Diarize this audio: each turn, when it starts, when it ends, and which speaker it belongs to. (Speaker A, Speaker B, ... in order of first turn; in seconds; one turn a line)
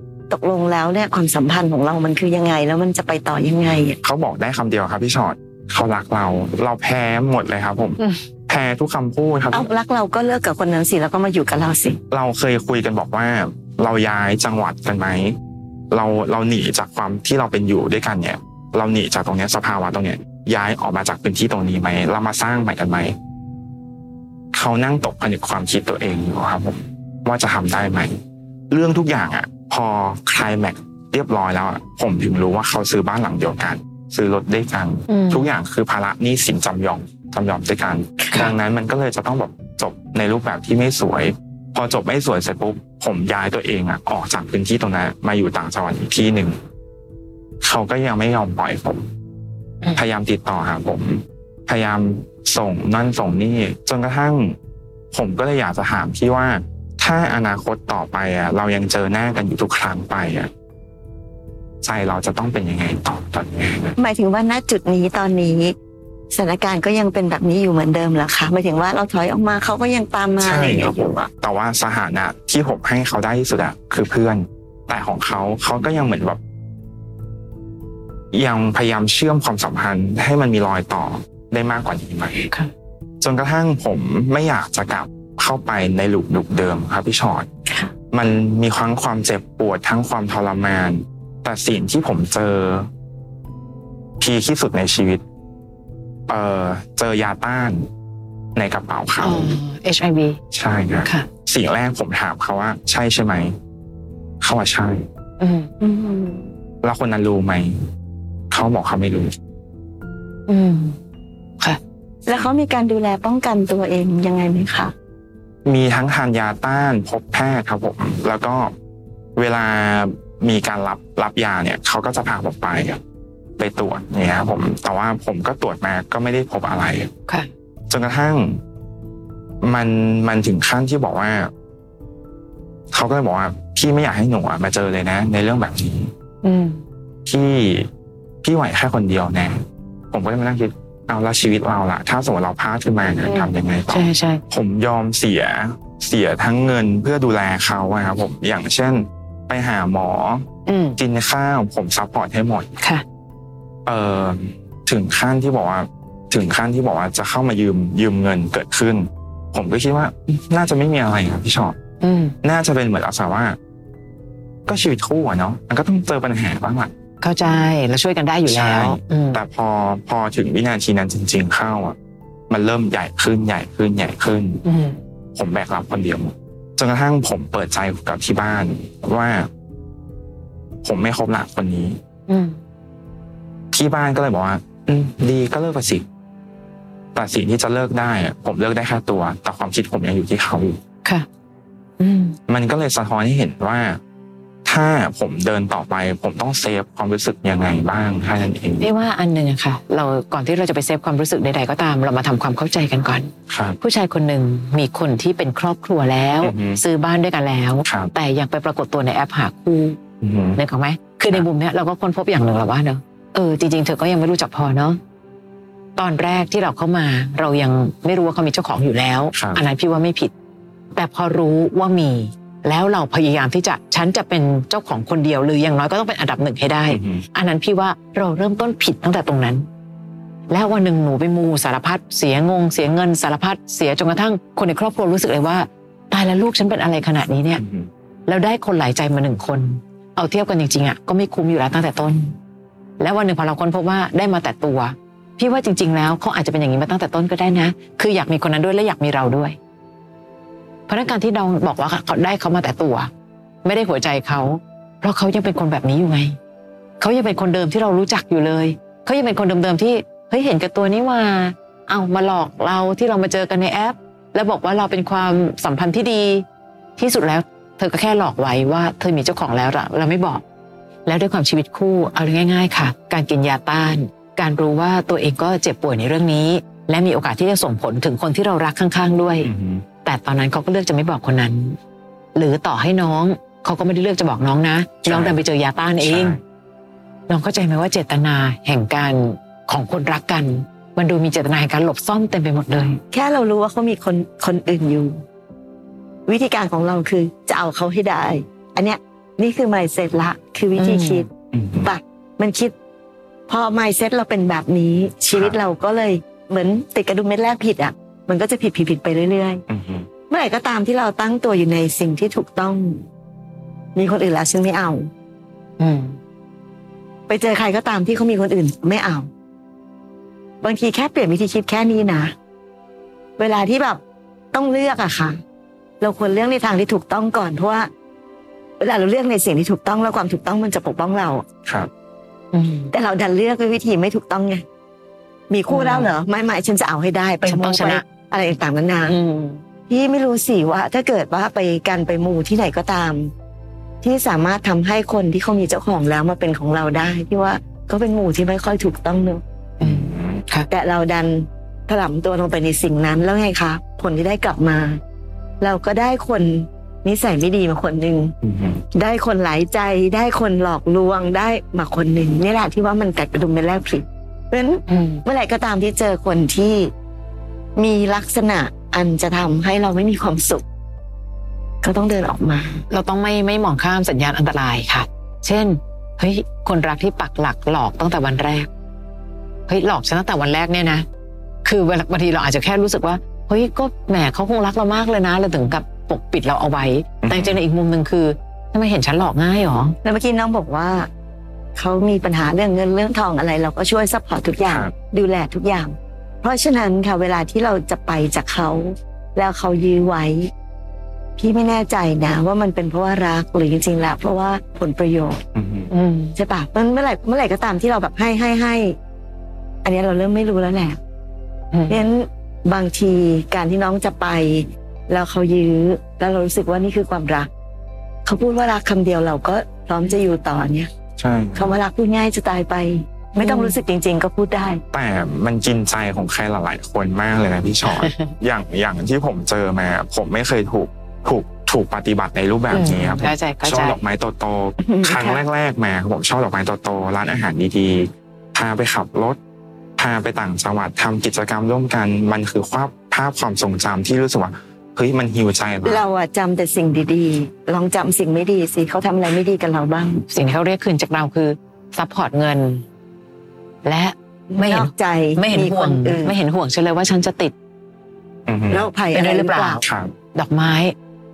Speaker A: 0.3-4.0
Speaker B: 4.0-9.7
Speaker A: 9.5-12.0
Speaker B: 12.1-15.3
Speaker B: 15.9-23.1
Speaker B: 24.5-28.1
Speaker B: 28.7-46.6
Speaker C: 35.1-35.5
Speaker A: 38.2-38.5
Speaker B: 47.6-49.0
Speaker B: 49.9-54.6
Speaker B: 55.1-60.5
Speaker B: 61.8-63.9
Speaker A: 64.0-65.7
Speaker A: 66.3-71.1
Speaker B: 70.4-76.4
Speaker B: 78.3-82.5
Speaker B: 83.2-87.5
Speaker B: 88.1-92.9
Speaker B: 94.2-95.2
Speaker B: 96.3-97.8
Speaker B: 98.5-99.6
Speaker C: 99.2-100.4
Speaker B: 100.5-103.5
Speaker B: 104.4-105.0
Speaker C: 105.4-105.7
Speaker A: 105.8-106.5
Speaker B: 106.8-107.8
Speaker B: 108.5-109.3
Speaker C: 110.5-111.0
Speaker A: 112.2-114.9
Speaker B: 115.6-118.7
Speaker B: 119.3-123.0
Speaker B: 123.6-127.1
Speaker B: 127.9-128.6
Speaker B: 129.6-131.5
Speaker B: 132.9-136.1
Speaker C: 136.4-136.8
Speaker B: 137.2-137.9
Speaker B: 138.4-139.6
Speaker B: 140.1-150.4
Speaker C: 143.2-144.4
Speaker C: 150.7-151.0
Speaker B: 151.0-152.7
Speaker B: 153.8-161.8
Speaker C: 162.0-162.3
Speaker B: 162.4-163.6
Speaker B: 164.7-166.9
Speaker C: 167.2-169.4
Speaker B: 168.5-171.9
Speaker B: 172.5-174.6
Speaker C: 174.6-175.0
Speaker B: 175.3-179.5
Speaker B: 180.8-182.0
Speaker C: 182.3-182.6
Speaker B: 183.7-186.0
Speaker B: 187.1-190.8
Speaker C: 192.0-192.4
Speaker B: 192.5-194.0
Speaker B: 194.6-198.9
Speaker C: 198.8-210.0
Speaker B: 203.5-203.8
Speaker B: 206.4-206.8
Speaker B: 207.8-208.1
Speaker B: 210.2-210.6
Speaker C: 210.6-215.0
Speaker C: 215.9-220.3
Speaker B: 219.3-219.6
Speaker C: 220.9-229.7
Speaker B: 226.9-227.2
Speaker C: 230.5-237.6
Speaker B: 237.6-237.9
Speaker C: 238.3-242.3
Speaker C: 243.0-249.6
Speaker C: 250.9-253.1
Speaker C: 253.6-256.4
Speaker C: 257.0-266.4
Speaker C: 267.0-270.4
Speaker C: 271.1-279.5
Speaker B: 279.4-279.9
Speaker C: 280.0-281.8
Speaker C: 282.3-286.4
Speaker B: 285.1-285.4
Speaker B: 286.0-286.4
Speaker C: 287.3-293.0
Speaker A: 293.1-295.2
Speaker A: 296.3-301.3
Speaker C: 300.8-301.3
Speaker B: 301.5-301.9
Speaker A: 301.8-302.7
Speaker A: 303.5-309.6
Speaker B: 305.3-305.6
Speaker B: 309.7-310.1
Speaker A: 310.3-313.0
Speaker A: 313.9-315.1
Speaker C: 315.8-316.2
Speaker A: 317.3-319.3
Speaker A: 320.6-322.3
Speaker A: 323.4-324.0
Speaker A: 324.5-325.4
Speaker A: 326.0-327.9
Speaker A: 328.8-331.4
Speaker C: 332.5-332.9
Speaker A: 332.9-334.6
Speaker A: 335.5-339.1
Speaker C: 335.7-336.1
Speaker C: 337.4-338.0
Speaker C: 339.1-339.6
Speaker A: 339.9-343.3
Speaker A: 344.0-349.4
Speaker C: 349.8-350.7
Speaker B: 349.8-350.4
Speaker A: 350.7-355.0
Speaker A: 355.6-358.3
Speaker B: 358.4-358.8
Speaker A: 358.9-366.9
Speaker C: 364.9-365.2
Speaker A: 367.8-370.6
Speaker A: 371.8-372.8
Speaker C: 372.9-378.7
Speaker C: 379.7-381.1
Speaker C: 381.6-389.9
Speaker B: 387.2-387.6
Speaker A: 390.0-391.1
Speaker A: 391.8-400.5
Speaker A: 401.4-405.4
Speaker B: 405.5-405.9
Speaker C: 405.9-406.3
Speaker A: 406.4-409.0
Speaker A: 409.8-411.0
Speaker C: 411.7-412.0
Speaker A: 411.9-417.5
Speaker A: 418.2-420.9
Speaker B: 421.2-421.8
Speaker A: 421.6-424.8
Speaker C: 423.4-423.8
Speaker B: 424.9-439.4
Speaker C: 427.8-428.3
Speaker C: 432.7-434.0
Speaker A: 434.8-435.4
Speaker B: 440.0-446.0
Speaker A: 445.8-450.2
Speaker C: 450.3-452.8
Speaker C: 453.8-457.5
Speaker A: 454.5-456.4
Speaker B: 458.5-458.9
Speaker A: 458.7-459.8
Speaker C: 459.1-459.8
Speaker B: 459.8-460.1
Speaker C: 460.3-460.9